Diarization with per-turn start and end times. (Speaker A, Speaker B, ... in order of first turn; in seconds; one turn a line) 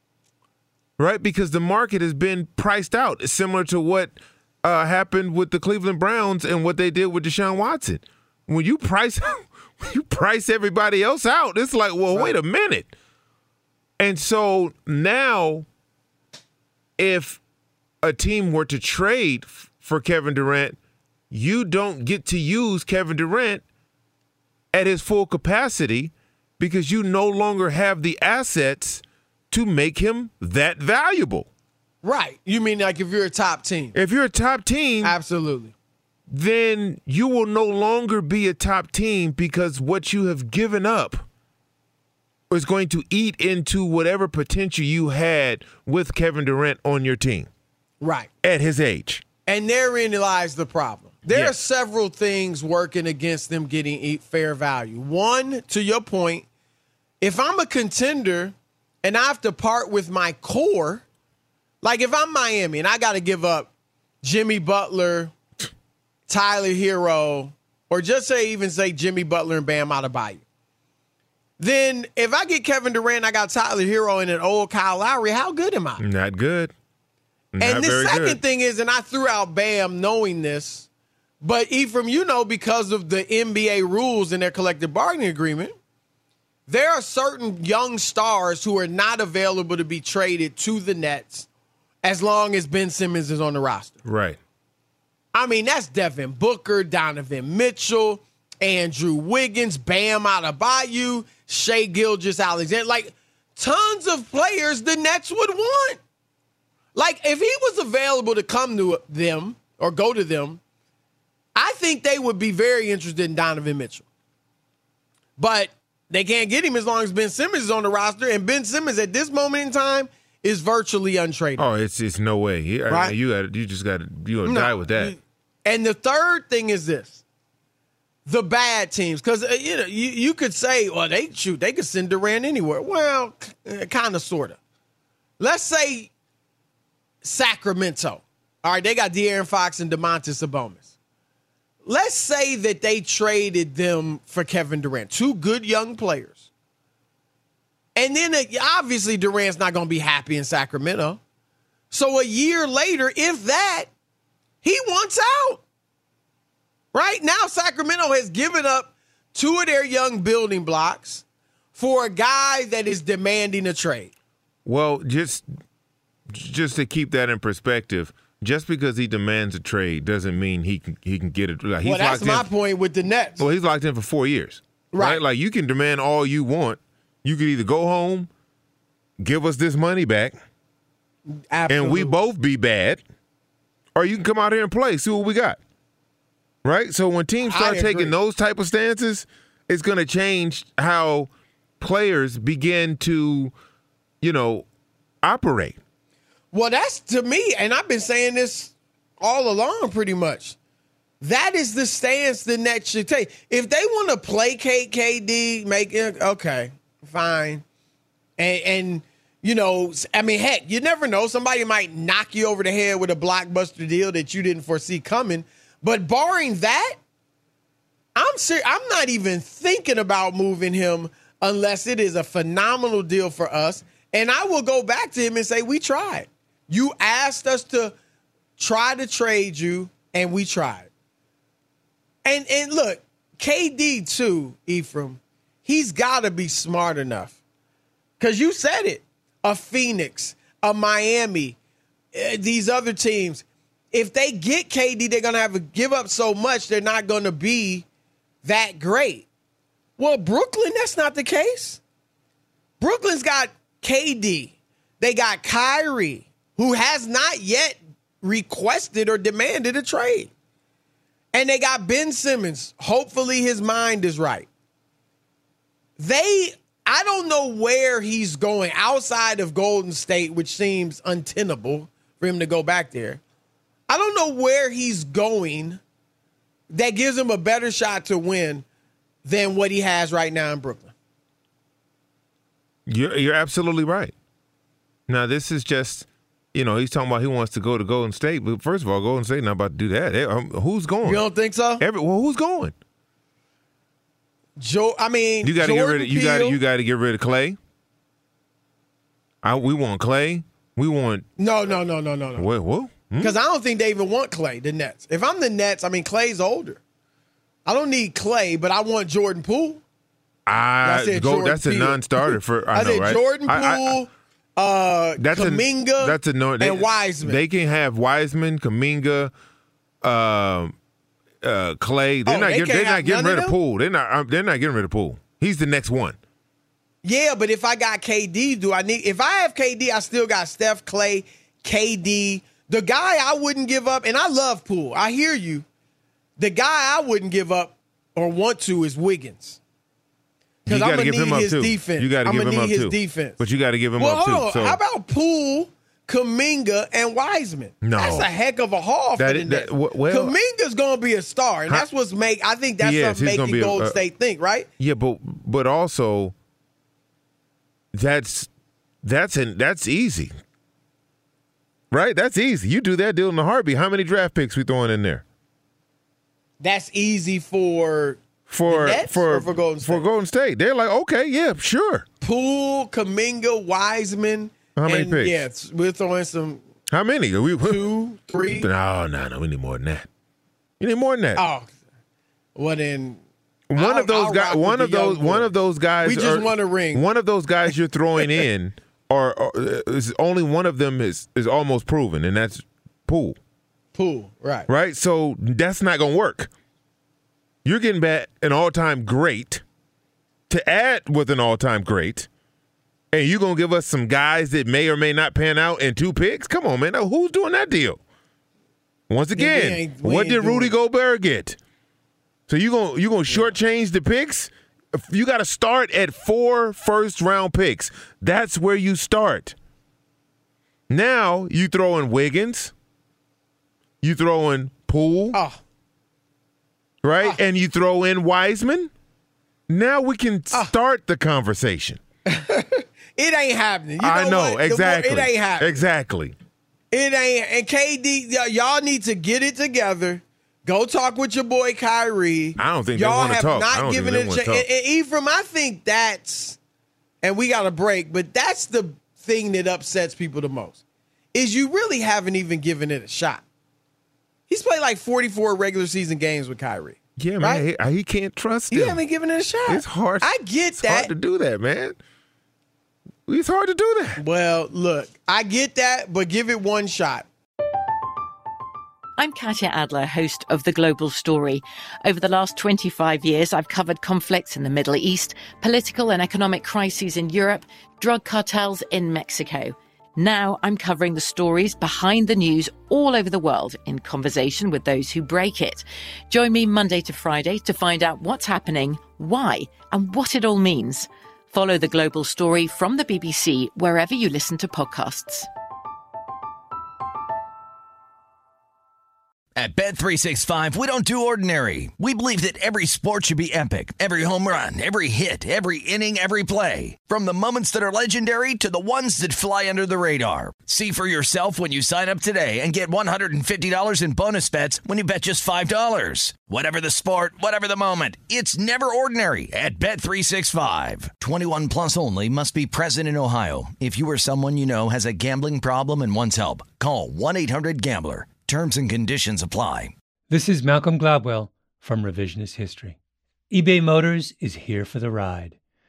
Speaker A: 1.0-12.9
Speaker B: 12.1-12.4
Speaker A: 14.0-15.7
Speaker A: 17.0-17.4
Speaker A: 18.0-20.8
Speaker A: 21.3-23.6
Speaker A: 24.7-31.5
Speaker B: 32.0-33.9
Speaker A: 33.9-35.1
Speaker B: 35.0-35.7
Speaker A: 36.3-41.2
Speaker A: 42.5-47.5
Speaker B: 48.0-48.3
Speaker A: 48.4-49.2
Speaker B: 49.5-56.5
Speaker B: 57.2-61.0
Speaker B: 61.8-63.7
Speaker B: 64.2-65.3
Speaker B: 66.3-70.4
Speaker B: 71.6-76.0
Speaker A: 76.0-76.7
Speaker A: 77.5-78.4
Speaker B: 77.6-80.9
Speaker B: 81.4-85.7
Speaker B: 86.7-91.5
Speaker B: 92.0-94.0
Speaker A: 94.0-94.4
Speaker B: 95.3-106.0
Speaker B: 106.9-110.6
Speaker B: 111.5-114.0
Speaker B: 115.4-121.7
Speaker A: 121.6-125.1
Speaker B: 122.9-123.2
Speaker B: 124.4-127.2
Speaker B: 128.2-134.6
Speaker B: 135.4-136.1
Speaker B: 137.2-140.9
Speaker B: 141.8-146.4
Speaker B: 147.9-151.2
Speaker B: 151.9-153.9
Speaker B: 154.6-155.6
Speaker B: 156.9-161.2
Speaker B: 161.8-164.1
Speaker A: 164.7-165.5
Speaker A: 166.3-172.5
Speaker B: 171.8-173.4
Speaker A: 173.4-178.3
Speaker B: 174.9-175.2
Speaker A: 179.2-180.4
Speaker B: 181.3-182.2
Speaker A: 181.7-183.0
Speaker A: 183.9-185.6
Speaker A: 186.6-191.3
Speaker B: 187.4-188.1
Speaker A: 191.8-193.5
Speaker A: 194.2-194.7
Speaker A: 195.2-195.8
Speaker B: 196.5-200.6
Speaker B: 201.2-207.6
Speaker B: 208.4-217.0
Speaker B: 218.1-227.9
Speaker B: 228.6-230.9
Speaker B: 232.2-237.4
Speaker B: 238.2-241.6
Speaker B: 242.1-247.8
Speaker B: 248.4-249.2
Speaker B: 250.0-251.8
Speaker B: 252.8-260.3
Speaker B: 261.3-264.5
Speaker B: 266.0-273.2
Speaker B: 273.9-275.8
Speaker B: 276.7-278.6
Speaker B: 279.2-280.9
Speaker A: 282.9-284.1
Speaker A: 285.1-291.2
Speaker B: 291.0-291.8
Speaker A: 291.8-292.7
Speaker B: 294.6-296.6
Speaker A: 295.4-297.6
Speaker A: 299.4-301.3
Speaker B: 301.4-302.5
Speaker A: 302.4-303.4
Speaker B: 303.2-306.8
Speaker B: 307.6-309.8
Speaker A: 310.5-314.0
Speaker B: 310.8-317.4
Speaker A: 315.2-319.3
Speaker A: 320.0-320.7
Speaker A: 321.4-326.2
Speaker B: 322.2-323.5
Speaker B: 327.0-335.6
Speaker B: 336.4-339.6
Speaker A: 340.6-344.8
Speaker B: 340.7-343.4
Speaker B: 344.0-354.7
Speaker A: 347.8-348.3
Speaker A: 349.2-350.3
Speaker A: 352.8-354.0
Speaker A: 354.8-356.3
Speaker A: 357.9-358.5
Speaker A: 359.0-360.3
Speaker A: 361.9-365.2
Speaker B: 366.6-370.0
Speaker A: 368.5-372.1
Speaker B: 372.2-376.6
Speaker A: 374.7-375.4
Speaker A: 376.9-377.8
Speaker B: 377.6-378.7
Speaker A: 378.5-380.1
Speaker A: 380.8-381.4
Speaker B: 381.4-381.7
Speaker B: 382.6-383.2
Speaker A: 383.7-393.4
Speaker B: 383.8-387.0
Speaker B: 393.9-394.7
Speaker A: 394.7-396.5
Speaker A: 397.6-399.6
Speaker A: 400.5-402.3
Speaker A: 403.1-408.0
Speaker A: 409.1-411.6
Speaker B: 409.3-410.7
Speaker A: 412.5-419.5
Speaker B: 413.3-413.5
Speaker A: 420.9-422.7
Speaker A: 424.0-425.4
Speaker B: 425.3-425.6
Speaker A: 427.0-428.9
Speaker A: 429.7-432.0
Speaker B: 432.2-435.8
Speaker A: 434.0-436.3
Speaker B: 436.9-446.6
Speaker A: 442.6-444.6
Speaker B: 447.2-450.8
Speaker B: 451.3-453.4
Speaker B: 454.5-457.6
Speaker A: 457.2-459.0
Speaker B: 458.7-461.1
Speaker A: 459.7-462.0
Speaker A: 463.3-464.2
Speaker B: 464.2-467.2
Speaker C: 469.2-495.5
Speaker D: 499.6-529.9
Speaker E: 530.3-533.0
Speaker E: 533.5-535.6